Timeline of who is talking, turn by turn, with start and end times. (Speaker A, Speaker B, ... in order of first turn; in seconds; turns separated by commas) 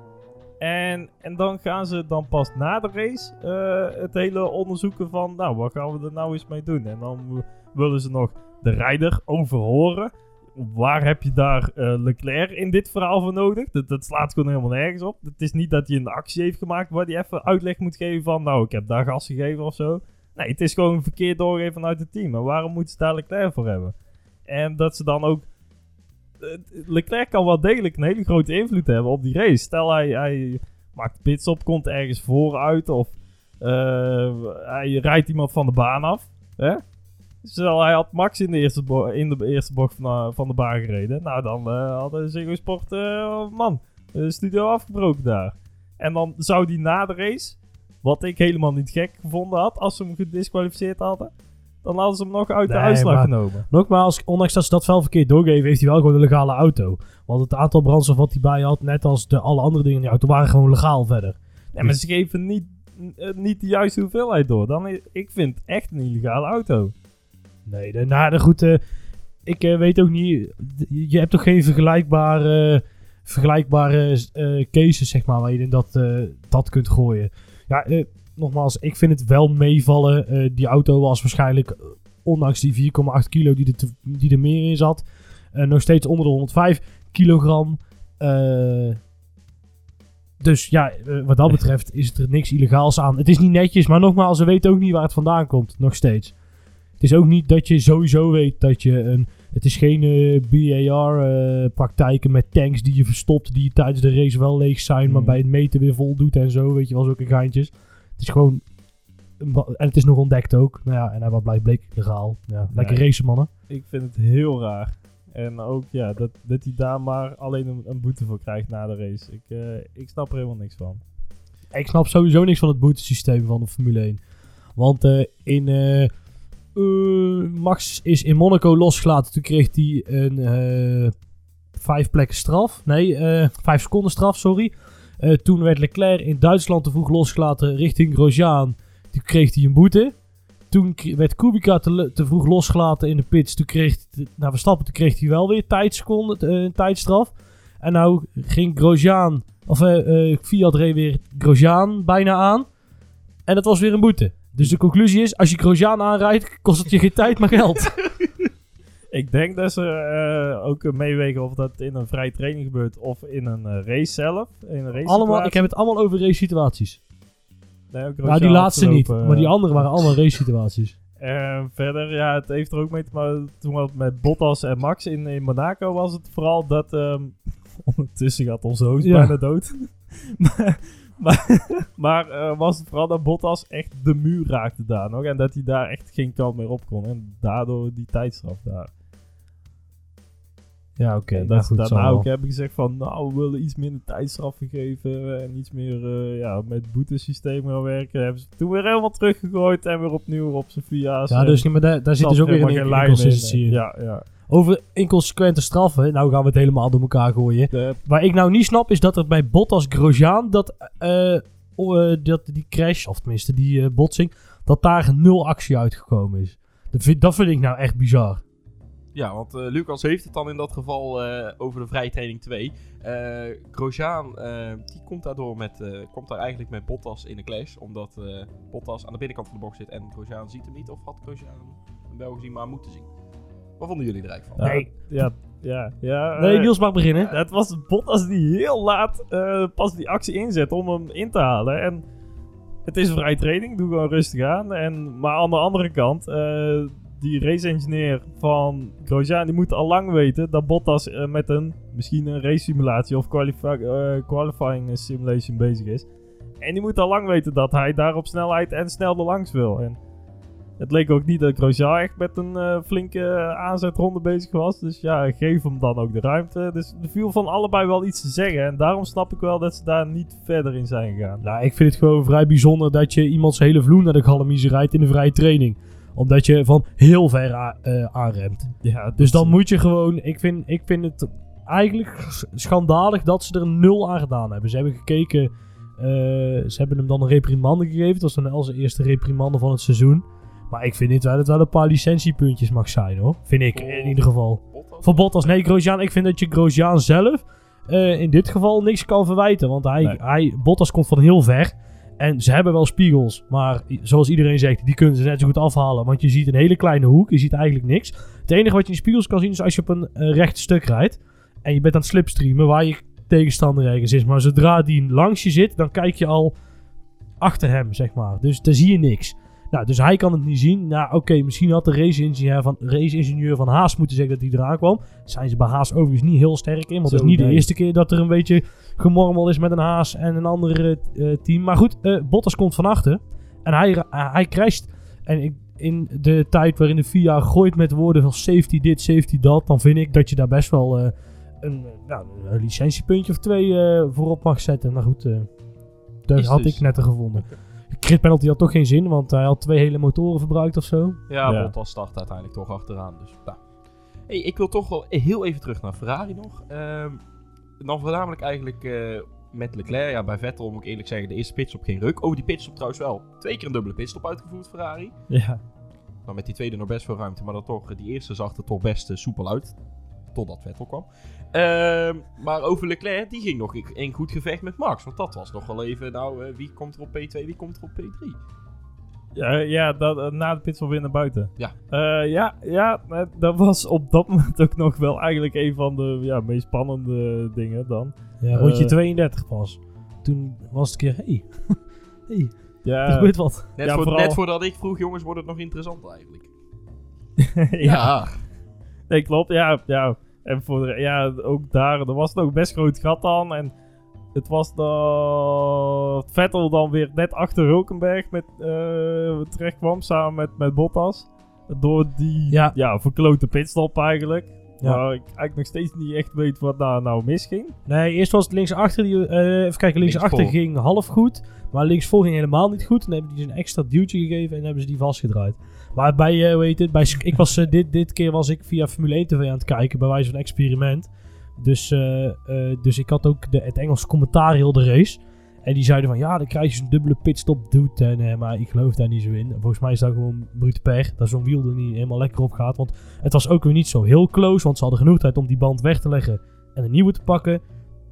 Speaker A: 0.6-23.9, Speaker A: 24.5-25.5, Speaker A: 26.4-36.8, Speaker A: 37.4-51.3, Speaker A: 51.8-53.7, Speaker B: 52.7-62.0, Speaker A: 61.7-66.9, Speaker B: 67.7-68.8, Speaker B: 69.5-89.0, Speaker B: 90.4-96.3, Speaker B: 97.0-108.6, Speaker A: 105.1-105.4, Speaker B: 109.4-113.5, Speaker A: 112.7-113.0, Speaker A: 113.7-121.0, Speaker B: 121.7-124.2, Speaker B: 124.8-126.1, Speaker B: 126.8-131.1, Speaker B: 131.8-140.1, Speaker B: 140.7-152.7, Speaker B: 153.5-158.0, Speaker A: 159.1-165.7, Speaker B: 165.1-167.0, Speaker A: 167.9-170.1, Speaker B: 168.2-170.9, Speaker A: 171.2-188.9, Speaker B: 179.0-179.3, Speaker B: 191.0-192.3, Speaker A: 191.3-201.6, Speaker B: 201.3-203.8, Speaker A: 202.2-204.2, Speaker B: 204.5-218.4, Speaker A: 207.7-208.0, Speaker C: 219.1-233.1, Speaker C: 233.8-234.8, Speaker A: 234.6-242.0, Speaker B: 234.6-235.3, Speaker B: 236.4-237.3, Speaker A: 242.8-256.1, Speaker A: 256.6-260.0, Speaker A: 260.8-271.4, Speaker B: 271.4-316.6, Speaker A: 278.8-279.6, Speaker C: 293.7-295.5, Speaker B: 317.4-345.5, Speaker A: 327.1-327.7, Speaker B: 346.3-351.2, Speaker C: 346.4-347.6, Speaker C: 351.3-353.6, Speaker A: 351.4-351.7, Speaker C: 354.3-357.2, Speaker C: 357.8-365.1, Speaker A: 365.3-365.6, Speaker C: 366.3-369.8, Speaker C: 370.3-378.4, Speaker A: 379.4-389.0, Speaker B: 388.4-393.7, Speaker A: 392.8-394.4, Speaker C: 393.8-396.5, Speaker A: 397.4-398.1, Speaker C: 397.8-398.4, Speaker A: 399.1-403.7, Speaker A: 404.3-417.8, Speaker B: 417.9-447.6, Speaker C: 420.0-420.6